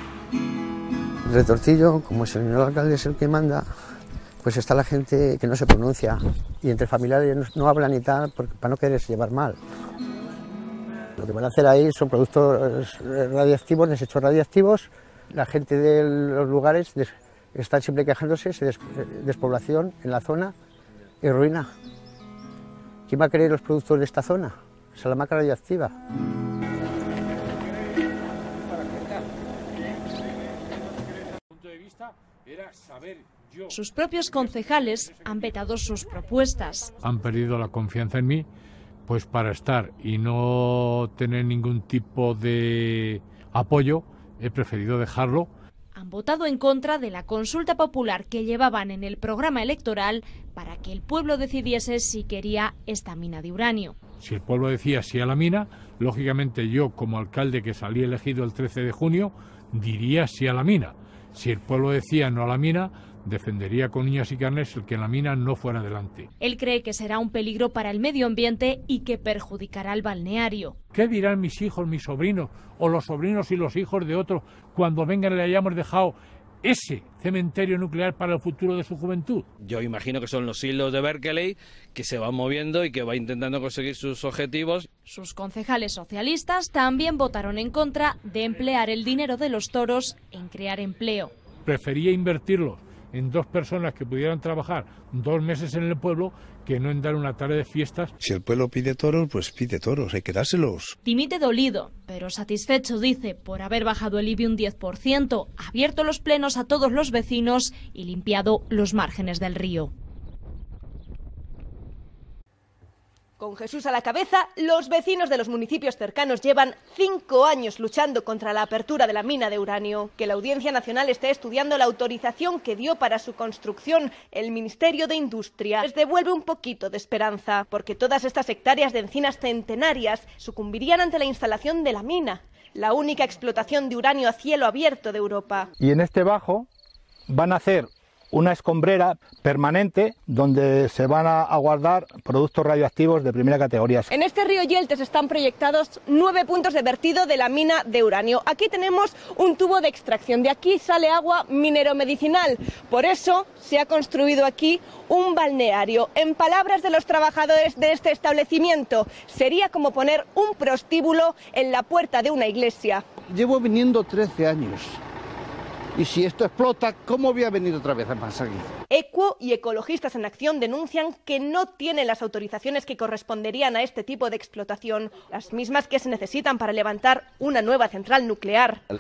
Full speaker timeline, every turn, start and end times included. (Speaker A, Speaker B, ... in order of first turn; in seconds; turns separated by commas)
Speaker A: 1.3-3.7, Speaker A: 4.4-9.6, Speaker A: 11.2-20.5, Speaker A: 21.2-21.7, Speaker A: 23.1-25.9, Speaker B: 31.5-33.7, Speaker C: 33.7-36.9, Speaker B: 37.0-38.5, Speaker B: 39.1-45.5, Speaker C: 46.0-54.0, Speaker B: 54.2-66.3, Speaker C: 66.4-70.8, Speaker B: 70.9-79.5, Speaker D: 79.6-84.9, Speaker C: 85.1-91.3, Speaker B: 91.7-98.1, Speaker E: 98.2-101.0, Speaker C: 101.0-109.9, Speaker F: 113.4-135.7, Speaker G: 135.8-136.7, Speaker G: 137.3-144.1, Speaker F: 144.1-163.0, Speaker H: 163.3-165.0, Speaker H: 165.9-168.7, Speaker F: 168.9-178.8